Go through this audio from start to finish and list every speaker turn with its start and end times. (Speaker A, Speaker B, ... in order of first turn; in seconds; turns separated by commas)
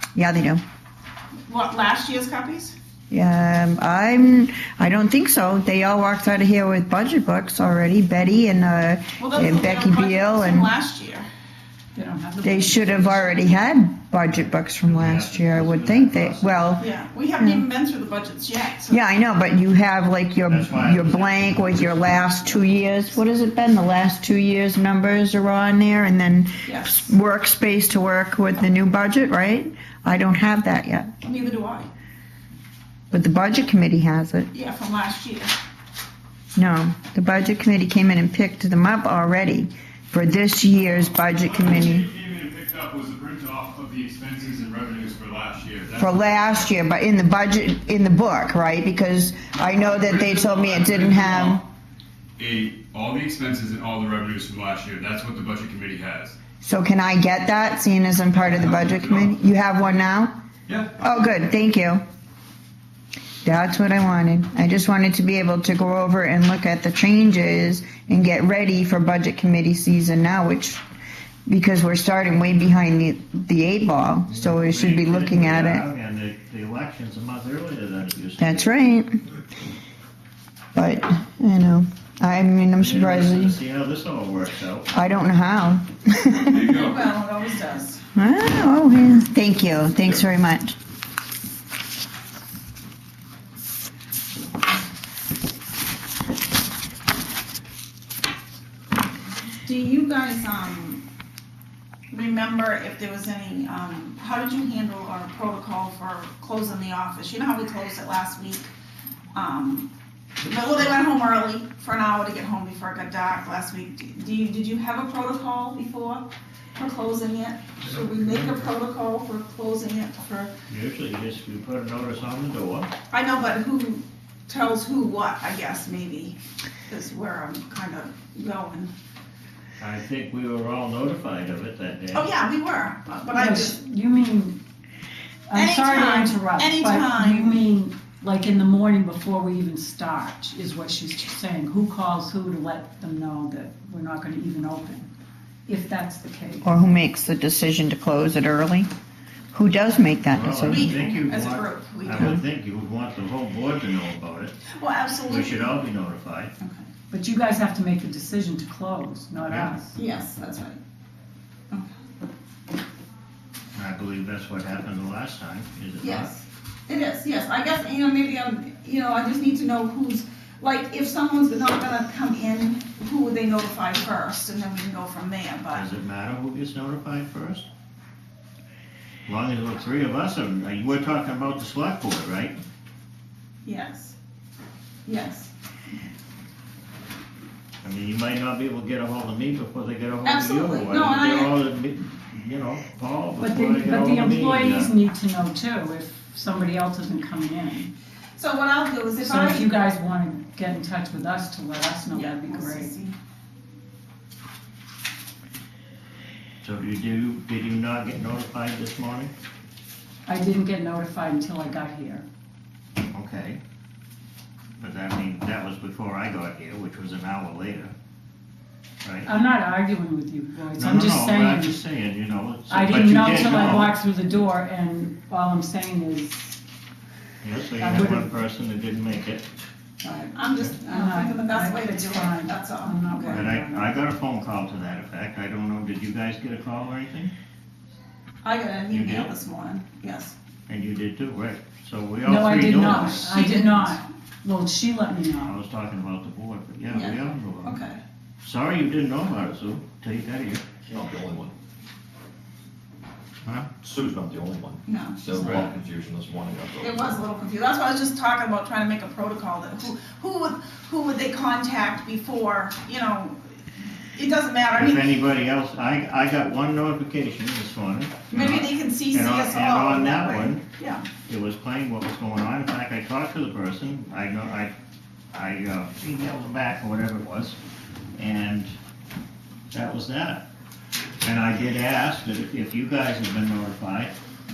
Speaker A: 0.1-0.6, Speaker B: 1.5-2.7, Speaker A: 3.1-10.7, Speaker B: 9.2-11.3, Speaker C: 11.9-13.3, Speaker A: 12.4-16.9, Speaker D: 14.8-16.6, Speaker B: 16.8-19.0, Speaker A: 17.4-17.6, Speaker A: 18.9-31.1, Speaker D: 20.5-22.9, Speaker B: 26.6-27.1, Speaker B: 31.2-31.9, Speaker A: 33.1-34.5, Speaker B: 34.5-35.5, Speaker A: 36.5-42.1, Speaker E: 41.2-46.7, Speaker A: 46.0-51.6, Speaker E: 49.5-51.6, Speaker E: 52.4-56.4, Speaker A: 56.6-60.3, Speaker E: 58.3-59.3, Speaker E: 60.7-61.2, Speaker A: 60.9-62.0, Speaker A: 63.4-70.8, Speaker A: 71.5-75.8, Speaker D: 74.3-78.7, Speaker A: 78.4-79.2, Speaker A: 80.8-83.6, Speaker D: 82.8-84.9, Speaker A: 84.9-86.8, Speaker E: 86.4-87.1, Speaker B: 86.8-88.0, Speaker A: 88.2-90.8, Speaker B: 99.7-101.0, Speaker B: 102.1-108.7, Speaker B: 109.3-109.9, Speaker B: 110.4-116.3, Speaker B: 116.8-120.5, Speaker D: 117.8-118.6, Speaker D: 120.7-122.9, Speaker B: 123.1-126.4, Speaker B: 126.9-128.9, Speaker D: 129.8-132.3, Speaker B: 132.1-133.8, Speaker C: 133.3-134.6, Speaker C: 135.5-145.1, Speaker B: 135.5-137.6, Speaker C: 145.7-146.8, Speaker A: 146.6-148.9, Speaker A: 149.5-150.9, Speaker D: 150.3-154.6, Speaker B: 150.6-152.4, Speaker B: 154.7-155.8, Speaker D: 155.2-156.5, Speaker C: 157.1-160.0, Speaker D: 159.4-159.8, Speaker B: 159.9-160.8, Speaker D: 163.8-166.3, Speaker B: 166.0-175.8, Speaker D: 175.7-177.7, Speaker D: 179.3-182.6, Speaker B: 183.7-184.2, Speaker B: 185.1-185.5, Speaker D: 187.8-194.9, Speaker B: 190.2-191.6, Speaker C: 193.4-197.9, Speaker B: 198.4-199.7, Speaker C: 199.2-202.9, Speaker B: 202.1-203.2, Speaker D: 206.6-209.3, Speaker C: 210.3-212.2, Speaker D: 213.1-213.6, Speaker D: 214.8-217.9, Speaker D: 219.0-219.3, Speaker C: 219.2-221.8, Speaker D: 220.8-223.9, Speaker C: 222.7-226.6, Speaker D: 227.4-229.5, Speaker C: 227.8-228.3, Speaker C: 230.0-233.9, Speaker B: 230.3-233.4, Speaker D: 233.3-237.3, Speaker B: 238.4-240.3, Speaker D: 238.9-239.3, Speaker D: 240.7-243.4, Speaker C: 242.2-245.6, Speaker B: 242.6-243.9, Speaker D: 245.4-247.8, Speaker B: 246.9-248.0, Speaker D: 248.4-250.6, Speaker F: 250.8-251.5, Speaker F: 253.5-257.2, Speaker B: 254.9-255.7, Speaker B: 256.8-263.4, Speaker B: 264.2-265.1, Speaker D: 264.7-270.6, Speaker B: 268.3-271.1, Speaker D: 271.2-274.7, Speaker D: 275.3-277.6, Speaker D: 278.2-278.8, Speaker D: 279.7-280.4, Speaker D: 281.2-284.1